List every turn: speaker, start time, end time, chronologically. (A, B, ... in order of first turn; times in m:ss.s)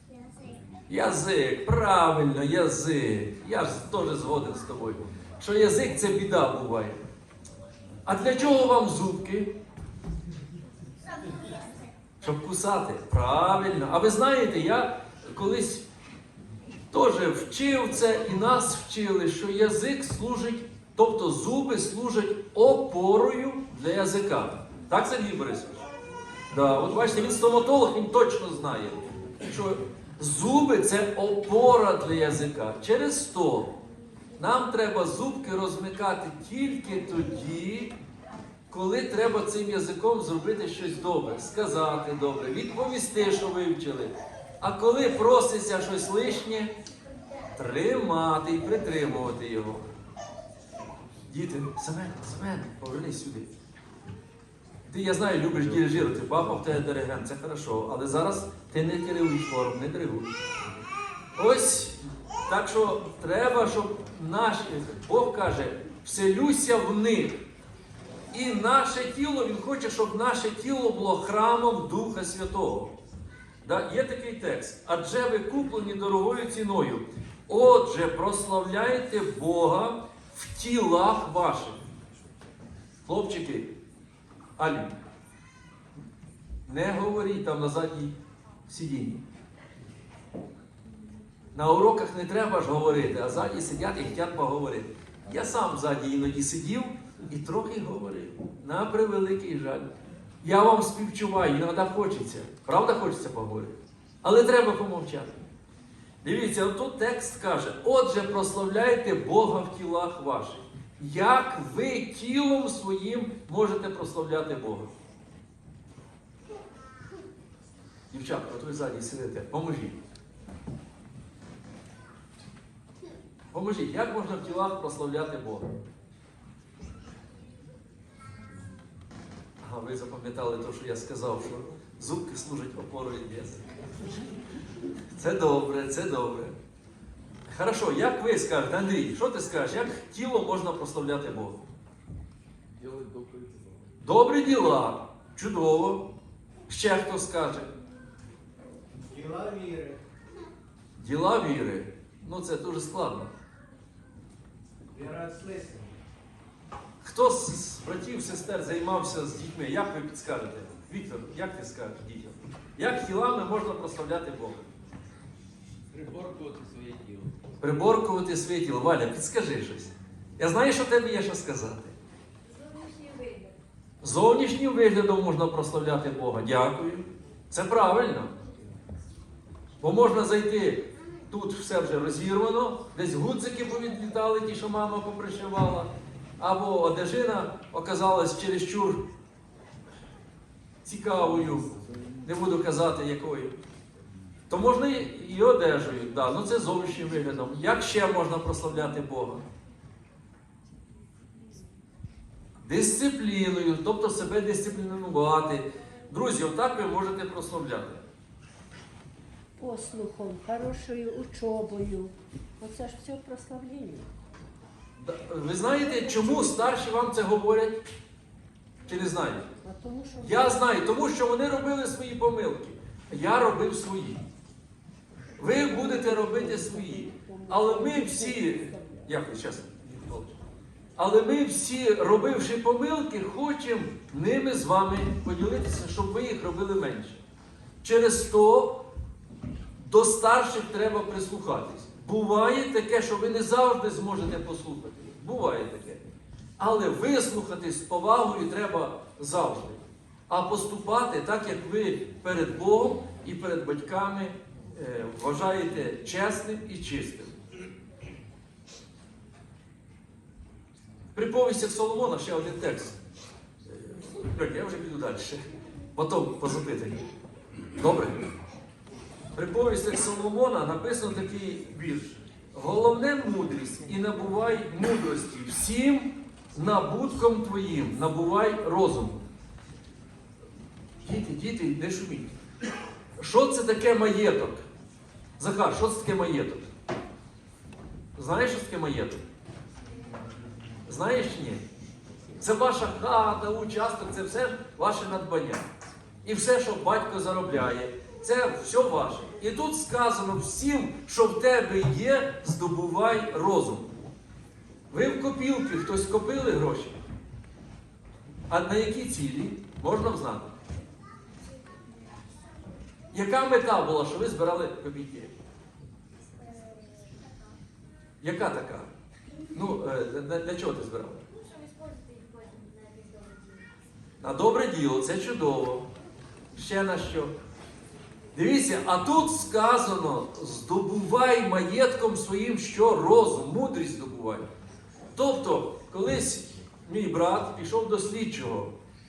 0:00.9-0:07.0 A
0:08.1-0:09.5 A
0:12.2-0:15.8 A
0:16.9-0:25.8 A
0:26.5-0:33.8 A
0:34.4-0:38.0 A
0:38.7-0:46.7 A
0:47.6-0:49.8 A
0:51.3-0:53.5 A
0:54.9-1:00.3 A
1:01.4-1:07.4 A
1:08.3-1:13.0 A
1:13.6-1:21.8 A
1:23.0-1:23.7 A
1:24.6-1:25.0 A
1:26.7-1:28.2 A
1:28.7-1:29.2 A
1:31.5-1:39.9 A
1:40.4-1:45.4 A
1:46.2-1:54.9 A
1:58.1-2:00.0 A
2:03.5-2:05.7 A
2:09.6-2:13.6 A
2:15.1-2:16.6 A
2:17.5-2:21.6 A
2:22.8-2:23.8 B
2:24.0-2:26.0 A
2:26.7-2:27.7 A
2:29.0-2:30.0 C
2:31.0-2:33.3 A
2:34.9-2:36.0 C
2:37.0-2:44.7 A
2:45.9-2:47.3 B
2:47.6-2:52.0 A
2:52.6-2:53.5 D
2:54.0-2:58.4 A
2:59.8-3:09.0 A
3:10.8-3:13.6 A
3:14.5-3:19.4 A
3:22.6-3:28.0 A
3:29.6-3:34.1 E
3:35.0-3:37.8 A
3:38.9-3:39.5 A
3:39.6-3:40.5 E
3:40.2-3:44.2 A
3:45.4-3:50.4 A
3:47.0-3:49.0 E
3:51.0-3:57.2 A
3:57.8-3:58.8 A
3:59.8-4:06.0 A
4:06.6-4:17.4 A
4:21.1-4:23.0 A
4:23.7-4:25.4 A
4:25.9-4:27.1 A
4:27.8-4:28.2 A
4:29.3-4:39.2 A
4:41.0-4:42.4 A
4:43.2-4:44.7 A
4:45.4-4:46.7 A
4:48.2-4:49.2 A
4:50.9-4:51.6 A
4:52.4-4:55.7 A
4:56.2-5:03.9 A
5:04.9-5:07.0 A
5:08.5-5:10.5 A
5:13.1-5:15.3 A
5:16.4-5:17.1 D
5:18.2-5:18.9 A
5:19.5-5:21.2 A
5:21.4-5:23.7 D
5:24.2-5:25.9 A
5:26.6-5:27.3 A
5:28.3-5:34.5 A
5:35.2-5:38.7 A